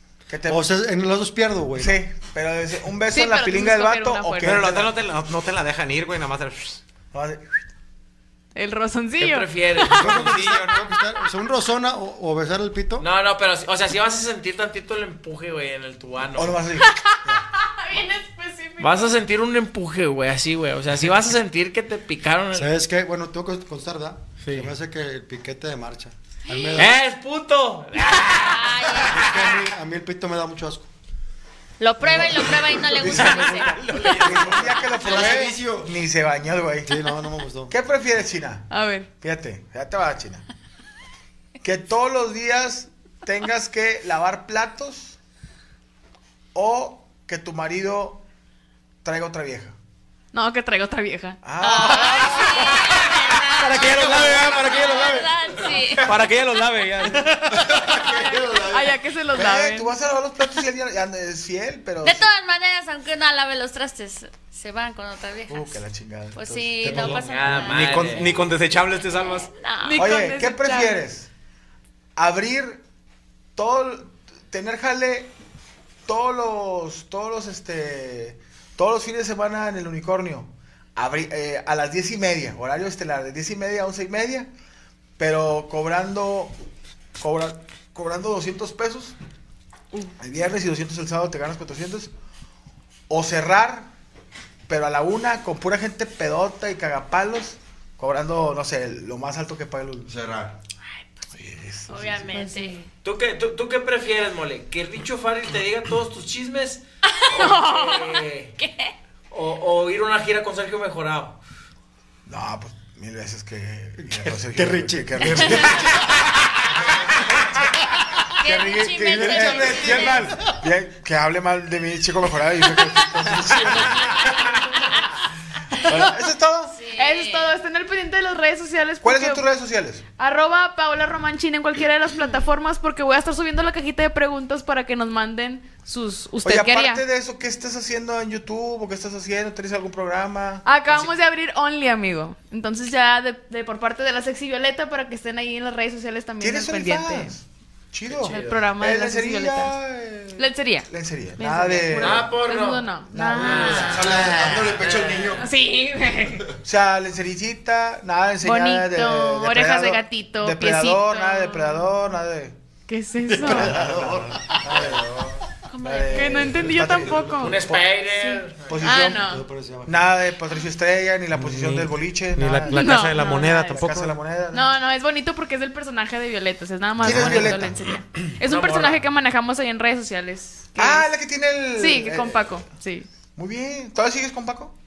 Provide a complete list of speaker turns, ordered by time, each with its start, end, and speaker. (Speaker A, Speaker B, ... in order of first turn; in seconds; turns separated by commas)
Speaker A: 0.3-0.7, Speaker B: 0.5-2.0, Speaker A: 1.8-5.0, Speaker C: 3.1-4.7, Speaker D: 4.4-6.8, Speaker A: 7.1-7.6, Speaker C: 8.5-9.9, Speaker E: 9.2-10.4, Speaker D: 9.9-10.9, Speaker B: 9.9-13.1, Speaker E: 13.0-16.6, Speaker A: 16.3-17.4, Speaker C: 16.8-19.2, Speaker E: 18.8-22.7, Speaker B: 22.5-26.9, Speaker E: 24.4-24.7, Speaker E: 26.8-28.6, Speaker D: 28.1-28.4, Speaker F: 28.1-29.5, Speaker B: 28.9-30.9, Speaker F: 31.8-34.1, Speaker B: 32.0-35.4, Speaker A: 32.1-37.0, Speaker D: 33.0-34.8, Speaker G: 35.0-35.9, Speaker B: 36.8-37.7, Speaker A: 37.7-38.7, Speaker C: 38.7-39.1, Speaker A: 39.2-40.4, Speaker A: 41.6-45.2, Speaker A: 46.5-48.2, Speaker A: 49.0-49.8, Speaker C: 50.3-51.4, Speaker A: 51.4-54.1, Speaker F: 51.6-56.2, Speaker D: 53.6-55.3, Speaker D: 56.0-57.6, Speaker C: 57.2-60.0, Speaker G: 57.5-59.0, Speaker A: 59.3-62.3, Speaker F: 62.0-65.8, Speaker A: 65.5-67.2, Speaker F: 66.3-70.0, Speaker B: 66.8-67.2, Speaker E: 66.9-68.4, Speaker D: 67.5-69.5, Speaker C: 69.8-71.0, Speaker A: 70.0-71.3, Speaker A: 72.2-72.8, Speaker A: 73.5-75.3, Speaker A: 76.0-84.5, Speaker A: 85.2-86.5, Speaker A: 87.2-89.2, Speaker A: 90.2-92.1, Speaker A: 93.1-93.9, Speaker A: 94.7-100.1, Speaker G: 100.0-100.5, Speaker A: 101.3-102.3, Speaker F: 101.9-102.8, Speaker C: 102.3-102.9, Speaker E: 103.0-108.5, Speaker F: 107.3-108.9, Speaker C: 107.3-108.0, Speaker E: 109.3-111.4, Speaker A: 112.2-116.5, Speaker B: 114.0-116.1, Speaker D: 115.2-115.5, Speaker A: 117.3-124.4, Speaker F: 118.3-120.4, Speaker B: 119.0-120.5, Speaker F: 123.4-125.2, Speaker A: 125.8-126.8, Speaker C: 125.9-126.2, Speaker F: 126.7-127.5, Speaker C: 126.8-129.4, Speaker A: 129.0-130.0, Speaker C: 130.2-137.0, Speaker A: 136.4-140.7, Speaker C: 140.6-147.3, Speaker A: 146.4-152.3, Speaker E: 148.1-148.7, Speaker C: 148.2-149.8, Speaker C: 150.4-156.5, Speaker E: 152.0-155.4, Speaker A: 153.1-154.2, Speaker G: 153.7-155.5, Speaker A: 156.6-162.5, Speaker C: 158.4-162.1, Speaker C: 162.9-163.8, Speaker B: 163.3-165.0, Speaker A: 163.3-165.2, Speaker F: 165.7-166.5, Speaker A: 165.8-168.0, Speaker C: 166.1-169.4, Speaker B: 166.9-167.4, Speaker E: 167.4-168.8, Speaker A: 168.6-169.3, Speaker B: 169.0-170.1, Speaker A: 169.8-174.7, Speaker D: 171.3-174.2, Speaker C: 172.7-173.9, Speaker C: 174.5-181.1, Speaker A: 177.0-177.9, Speaker D: 177.0-177.5, Speaker B: 177.1-177.5, Speaker E: 178.4-179.0, Speaker A: 180.8-182.6, Speaker C: 181.7-183.1, Speaker A: 183.3-184.7